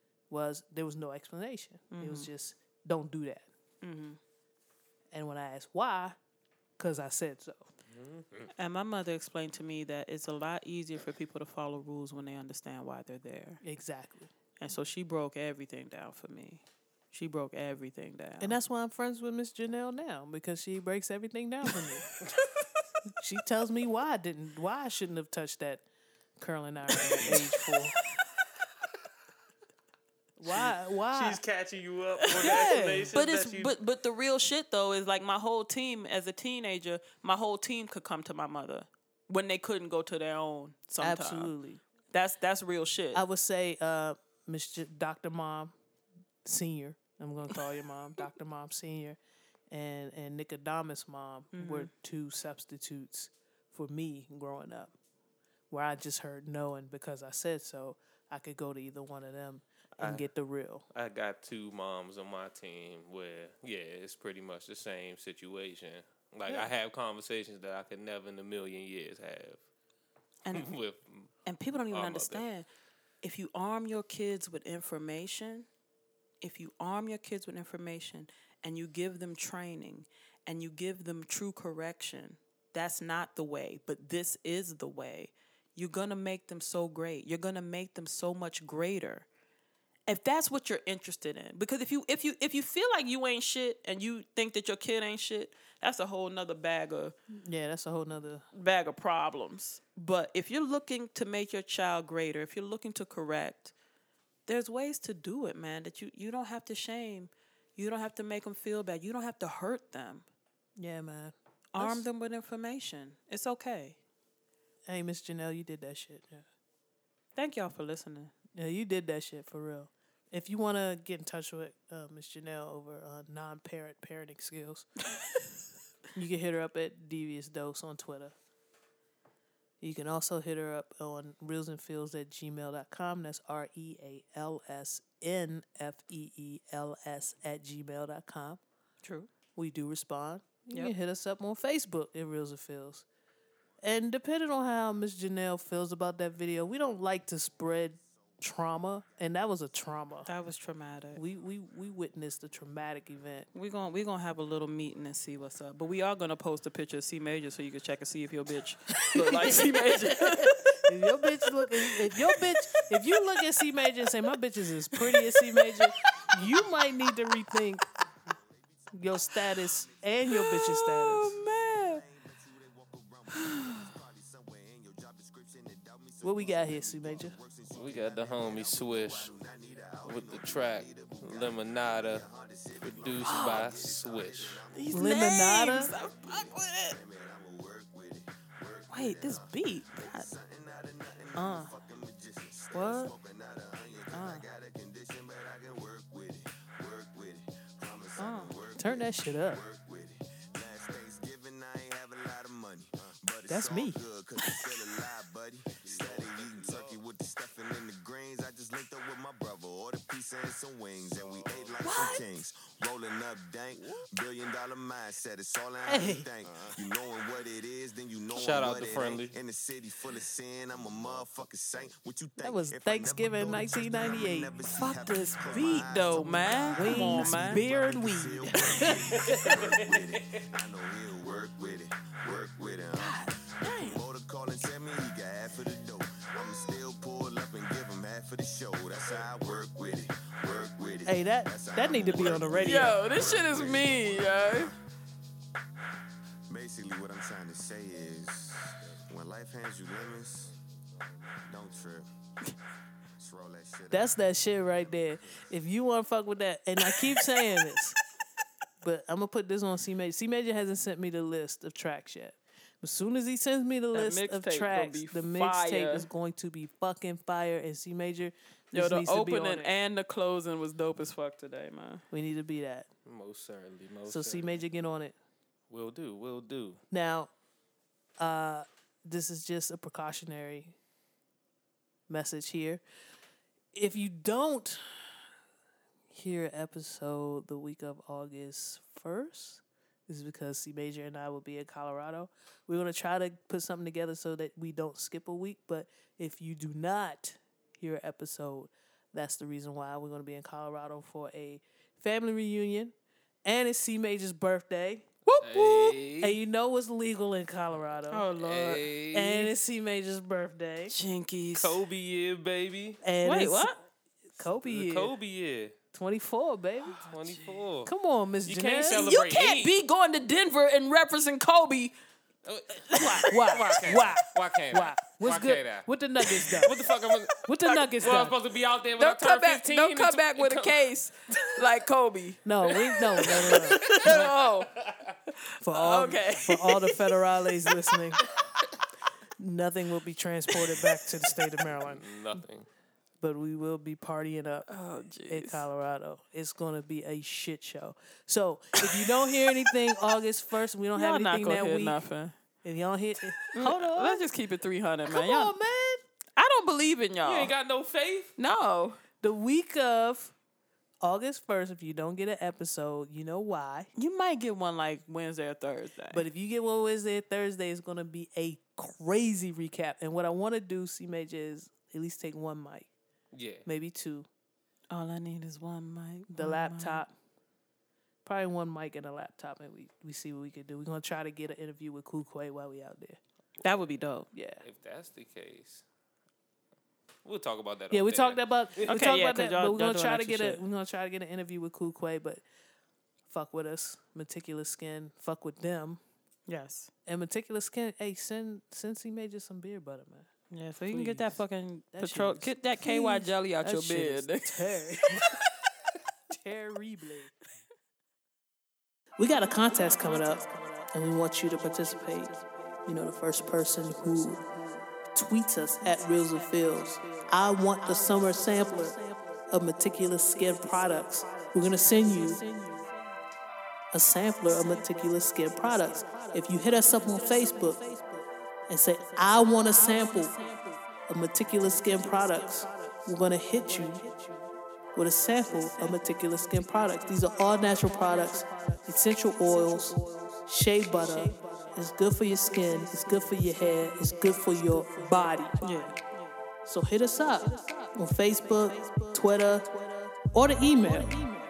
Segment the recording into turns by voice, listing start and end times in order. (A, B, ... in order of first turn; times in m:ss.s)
0:00.3-0:03.5 A
0:01.9-0:02.3 B
0:03.8-0:04.2 B
0:05.1-0:06.2 A
0:06.8-0:07.7 A
0:07.9-0:08.5 C
0:08.6-0:13.6 B
0:13.6-0:14.3 A
0:14.6-0:18.6 B
0:18.4-0:22.0 A
0:23.1-0:25.8 A
0:26.4-0:28.0 A
0:27.1-0:27.5 B
0:30.4-0:31.4 A
0:30.5-0:33.8 C
0:32.2-0:41.5 B
0:32.4-0:33.2 A
0:41.0-0:41.8 A
0:42.1-0:43.2 B
0:43.1-0:45.7 A
0:46.4-0:49.2 A
0:49.7-0:54.9 A
0:51.5-0:51.9 B
0:55.7-1:00.8 A
1:00.0-1:00.3 C
1:00.9-1:09.6 C
1:10.4-1:10.7 B
1:10.5-1:11.3 C
1:11.5-1:12.7 B
1:11.9-1:12.4 C
1:13.2-1:15.7 B
1:16.4-1:29.3 B
1:30.1-1:37.2 B
1:37.3-1:38.4 A
1:38.5-1:43.7 B
1:44.5-1:50.3 B
1:50.8-1:52.1 A
1:51.8-1:54.0 B
1:54.9-1:56.4 A
1:57.4-1:58.3 B
1:58.5-2:05.0 A
2:06.2-2:08.4 A
2:09.8-2:18.6 A
2:19.0-2:19.3 B
2:19.6-2:23.0 A
2:23.8-2:30.3 A
2:30.3-2:31.2 B
2:31.2-2:33.5 A
2:33.5-2:42.5 B
2:39.1-2:47.9 A
2:45.0-2:45.9 B
2:46.3-2:46.9 D
2:48.3-2:50.1 D
2:48.9-2:51.4 A
2:50.3-2:52.0 B
2:51.3-4:04.8 D
2:53.3-2:53.9 B
2:56.2-2:57.4 A
2:57.7-2:59.3 C
3:00.0-3:02.2 C
3:02.8-3:04.6 C
3:03.2-3:03.7 B
3:04.7-3:07.0 B
3:04.9-3:05.9 A
3:08.9-3:10.3 B
3:11.4-3:11.7 A
3:12.7-3:13.1 B
3:14.1-3:14.4 B
3:18.2-3:18.5 B
3:18.8-3:19.6 A
3:23.5-3:24.0 A
3:24.4-3:24.8 B
3:25.9-3:26.9 C
3:31.8-3:32.3 B
3:35.9-3:36.3 A
3:38.3-3:39.4 C
3:42.4-3:44.5 A
3:44.8-3:47.6 B
3:45.5-3:49.4 A
3:48.6-3:48.9 B
3:49.4-3:50.2 C
3:53.0-3:54.0 B
4:01.1-4:03.0 A
4:02.6-4:04.7 B
4:06.5-4:10.6 D
4:11.4-4:12.1 D
4:13.2-4:14.2 D
4:13.9-4:18.0 A
4:18.8-4:29.7 A
4:23.9-4:26.1 B
4:28.7-4:32.0 B
4:32.1-4:32.9 A
4:33.0-4:34.6 C
4:34.1-4:35.2 A
4:35.7-4:36.8 C
4:36.9-4:37.3 A
4:38.2-4:40.8 A
4:42.1-4:42.8 A
4:43.7-4:44.8 A
4:46.1-5:02.9 A
5:03.4-5:05.1 A
5:05.3-5:06.0 B
5:05.4-5:06.4 C
5:06.2-5:08.3 A
5:08.1-5:09.5 C
5:08.1-5:08.9 B
5:09.1-5:11.0 A
5:10.9-5:11.8 B
5:11.6-5:13.0 C
5:13.0-5:13.7 A
5:13.2-5:13.8 B
5:14.4-5:15.2 A
5:14.6-5:15.8 C
5:15.9-5:17.1 A
5:17.1-5:17.9 C
5:17.1-5:17.6 B
5:17.8-5:19.1 A
5:18.4-5:19.7 C
5:18.9-5:21.9 B
5:22.4-5:30.9 C
5:22.9-5:26.8 A
5:27.4-5:28.4 A
5:29.0-5:34.7 B
5:32.4-5:34.3 A
5:33.2-5:35.2 C
5:35.6-5:38.2 A
5:35.7-5:37.2 B
5:39.4-5:42.1 A
5:41.7-5:42.7 C
5:43.2-5:44.7 A
5:44.7-5:45.7 B
5:45.3-5:52.0 A
5:51.0-5:52.4 B
5:52.6-5:54.2 A
5:53.6-5:55.5 B
5:55.1-5:56.0 A
5:56.4-5:57.6 B
5:57.2-5:58.3 C
5:58.4-5:59.0 B
5:59.2-6:00.3 A
6:01.0-6:03.9 A
6:04.0-6:06.2 B
6:06.1-6:12.9 A
6:13.3-6:13.7 C
6:13.6-6:14.3 A
6:14.9-6:17.0 B
6:16.3-6:17.1 A
6:18.2-6:23.2 A
6:23.6-6:24.3 B
6:24.3-6:24.6 A
6:24.6-6:25.8 C
6:27.2-6:29.0 C
6:27.9-6:32.4 A
6:28.9-6:30.6 B
6:33.3-6:36.0 A
6:36.5-6:36.9 B
6:37.1-6:40.3 A
6:40.5-6:45.4 B
6:40.8-6:41.4 A
6:41.9-6:45.4 A
6:46.3-6:47.3 A
6:49.2-7:02.8 A
7:03.9-7:07.9 A
7:08.7-7:14.1 A
7:15.0-7:25.9 A
7:25.6-7:26.3 B
7:26.7-7:31.2 A
7:30.9-7:31.3 B